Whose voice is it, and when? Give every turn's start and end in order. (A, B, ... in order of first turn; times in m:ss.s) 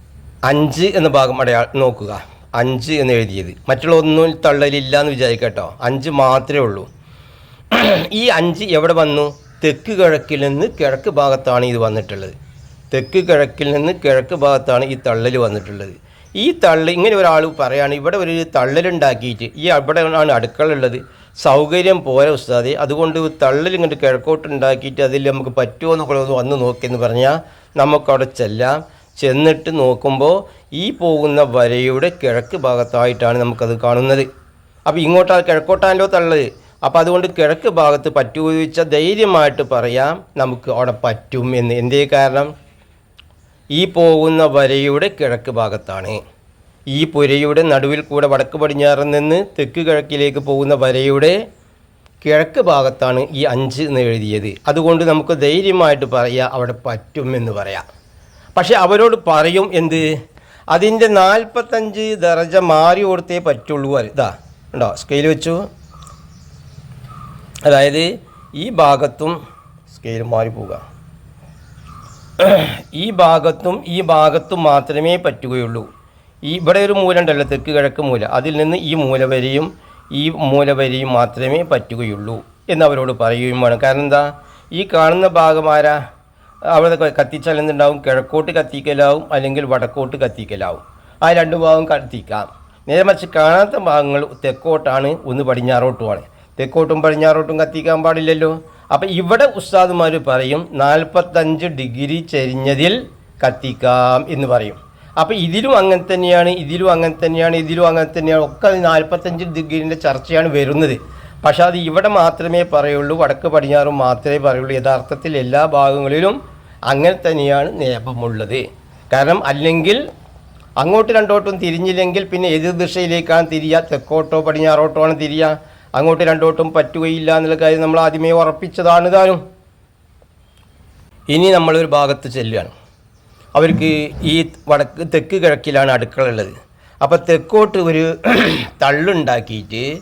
0:00.4-0:06.9 A
0:07.7-0:12.3 A
0:12.9-0:34.3 A
0:34.9-0:42.5 A
0:43.8-0:46.2 A
0:46.9-0:51.4 A
0:52.2-0:57.8 A
0:58.6-1:00.0 A
1:00.7-1:05.6 A
1:07.6-1:09.4 A
1:09.9-1:10.8 A
1:12.4-1:15.9 A
1:16.4-1:26.0 A
1:26.7-1:56.4 A
1:56.9-2:00.0 A
2:00.8-2:09.4 A
2:11.3-2:12.7 A
2:13.6-2:19.9 A